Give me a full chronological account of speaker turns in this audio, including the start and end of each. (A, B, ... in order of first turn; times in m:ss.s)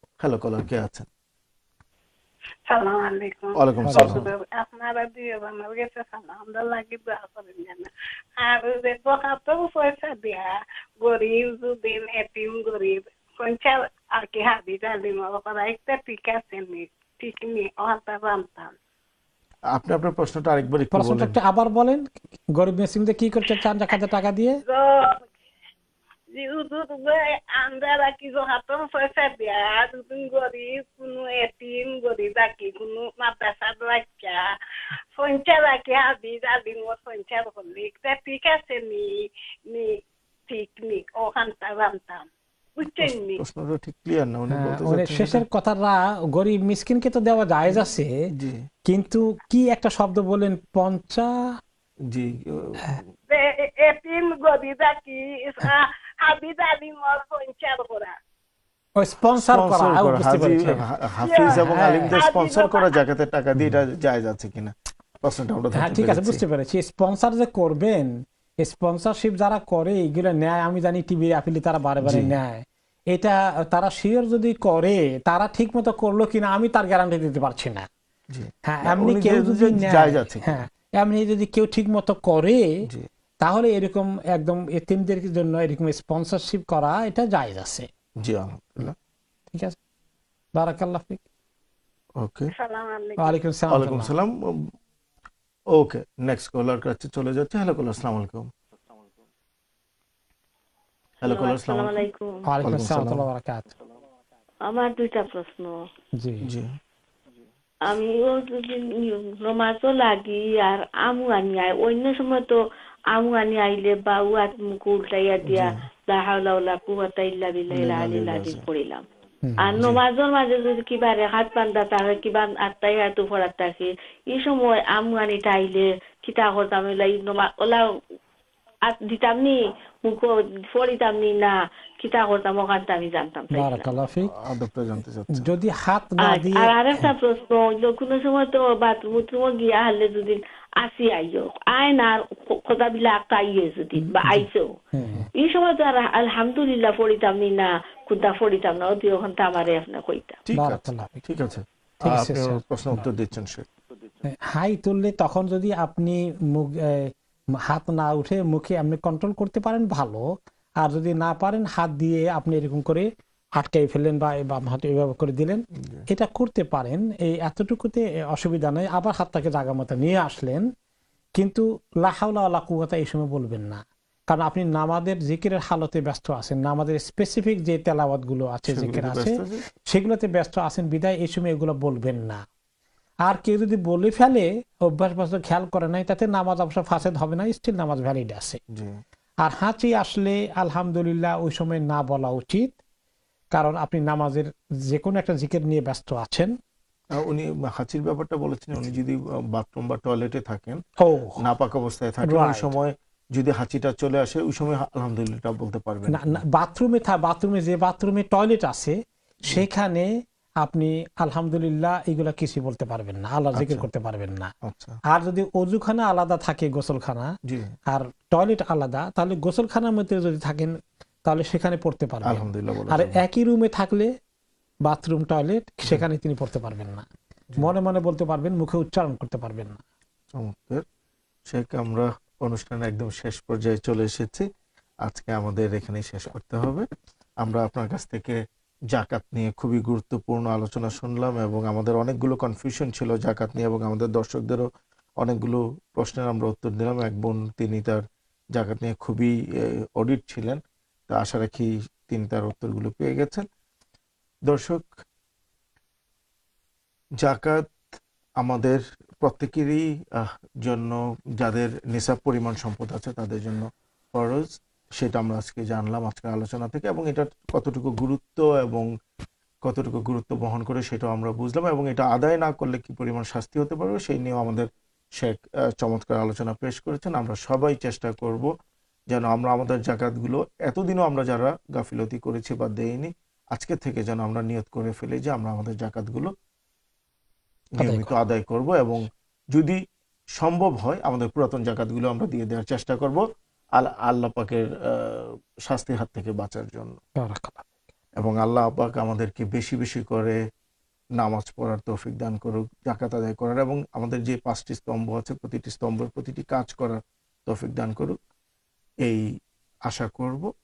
0:00.2-0:01.1 A
0:02.7-0:18.8 B
0:03.5-0:04.2 A
0:03.9-0:04.2 C
0:19.7-0:21.4 A
0:20.9-0:24.6 C
0:24.6-0:25.3 B
0:26.3-0:34.5 B
0:35.2-0:39.9 B
0:40.5-0:43.4 B
0:43.0-0:45.4 A
0:44.5-0:48.1 C
0:47.7-0:48.6 A
0:48.8-0:51.3 C
0:52.1-0:53.1 A
0:53.3-0:58.1 B
0:59.0-1:00.8 C
0:59.3-1:06.4 A
1:01.2-1:03.0 B
1:01.5-1:02.2 C
1:05.7-1:17.9 C
1:12.0-1:12.3 A
1:18.3-1:20.6 A
1:18.6-1:22.6 C
1:23.4-1:27.9 C
1:28.2-1:28.9 A
1:29.5-1:29.8 C
1:30.6-1:31.2 C
1:32.2-1:32.5 A
1:32.5-1:33.4 B
1:33.2-1:34.1 C
1:33.7-1:34.7 A
1:35.7-1:38.5 A
1:41.2-1:42.0 A
1:41.2-1:42.4 D
1:42.4-1:43.7 C
1:42.6-1:43.2 A
1:44.7-1:45.7 D
1:46.2-1:46.5 C
1:46.4-1:46.8 A
1:47.8-1:52.6 D
1:53.1-1:59.0 D
1:55.4-1:55.8 A
1:57.7-1:58.7 A
1:59.4-1:59.8 C
1:59.6-2:07.9 D
2:08.9-2:13.8 D
2:13.5-2:14.3 C
2:14.3-2:15.5 A
2:15.3-2:17.1 C
2:16.2-2:24.7 D
2:24.0-2:25.3 C
2:25.3-2:30.4 D
2:30.5-2:33.7 A
2:30.5-2:31.2 C
2:32.0-2:32.6 C
2:34.2-2:40.3 C
2:40.8-2:50.7 C
2:45.8-2:46.0 A
2:51.4-3:02.4 C
2:58.7-2:59.6 A
3:03.2-3:08.6 C
3:08.7-3:09.0 A
3:09.4-3:12.7 C
3:13.5-3:16.5 C
3:17.1-3:20.8 A
3:21.0-3:21.4 C
3:21.4-3:26.4 A
3:22.2-3:22.7 C
3:26.1-3:30.1 C
3:30.6-3:34.5 C
3:33.5-3:33.8 A
3:34.6-3:35.0 A
3:35.1-3:37.3 C
3:37.4-3:37.7 A
3:37.9-3:44.1 C
3:42.2-3:43.2 A
3:44.9-3:47.0 C
3:47.6-3:49.8 C
3:50.3-3:50.8 A
3:51.5-3:54.5 A
3:55.0-3:56.9 A
3:57.4-3:58.4 A
3:58.9-4:04.7 A
4:05.2-4:08.0 A
4:08.5-4:13.4 A
4:14.5-4:14.9 A
4:17.2-4:17.6 A
4:18.4-4:28.9 A
4:29.6-4:38.5 A
4:39.1-4:46.3 A
4:47.8-4:49.8 A
4:47.8-4:48.1 C
4:50.4-4:53.2 A
4:53.8-4:57.0 A
4:57.2-4:57.7 C
4:58.2-5:00.4 A
5:01.2-5:08.2 A
5:09.9-5:10.5 A